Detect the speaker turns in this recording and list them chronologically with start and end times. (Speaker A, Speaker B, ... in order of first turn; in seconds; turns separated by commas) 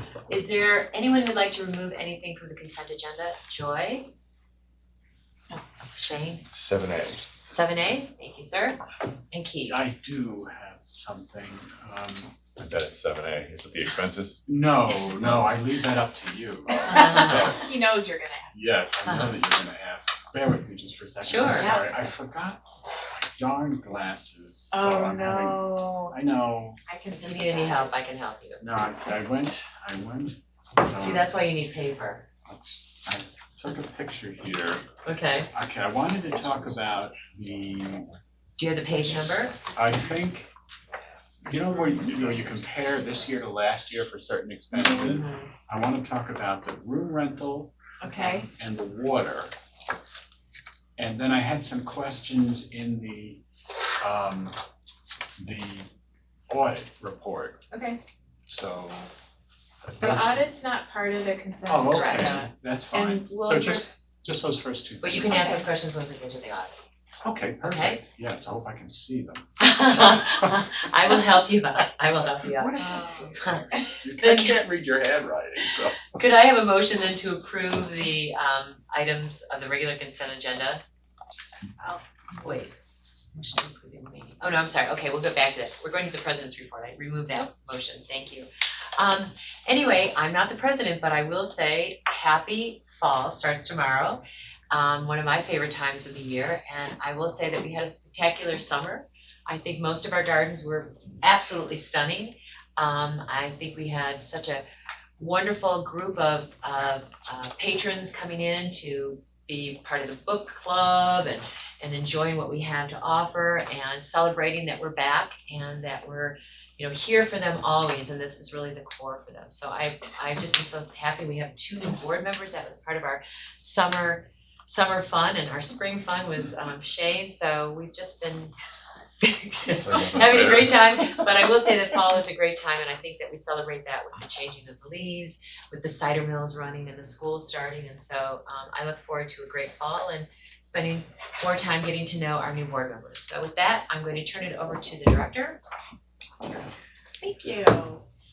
Speaker A: 0.3-4.1, Speaker A: 5.5-6.5, Speaker B: 6.5-7.2, Speaker A: 7.4-8.8, Speaker A: 9.3-9.8, Speaker C: 9.7-12.6, Speaker B: 12.6-14.4, Speaker C: 14.4-17.6, Speaker A: 16.8-17.6, Speaker D: 16.9-18.6, Speaker C: 18.5-26.8, Speaker A: 19.0-19.4, Speaker A: 21.2-21.8, Speaker D: 21.5-21.9, Speaker D: 24.7-26.1, Speaker D: 26.9-28.1, Speaker A: 27.1-28.6, Speaker C: 28.6-31.2, Speaker A: 30.8-32.3, Speaker C: 32.5-34.9, Speaker A: 35.0-35.5, Speaker C: 35.5-38.1, Speaker A: 38.6-39.6, Speaker C: 39.7-40.5, Speaker C: 41.5-47.7, Speaker A: 44.9-45.5, Speaker D: 48.0-48.5, Speaker C: 48.4-49.5, Speaker C: 51.0-53.4, Speaker C: 54.0-54.6, Speaker C: 55.4-55.9, Speaker C: 56.5-57.6, Speaker D: 57.7-58.0, Speaker C: 58.5-59.1, Speaker C: 59.8-60.4, Speaker D: 60.0-63.9, Speaker C: 61.7-65.5, Speaker A: 61.9-62.4, Speaker A: 65.0-66.7, Speaker D: 65.4-65.7, Speaker C: 67.2-70.3, Speaker A: 67.6-68.0, Speaker A: 69.6-74.7, Speaker C: 72.5-75.9, Speaker D: 72.8-73.2, Speaker A: 76.0-80.8, Speaker A: 82.4-82.7, Speaker A: 83.3-104.6, Speaker A: 105.2-128.5, Speaker A: 129.2-145.6, Speaker B: 129.8-130.8, Speaker D: 147.2-148.0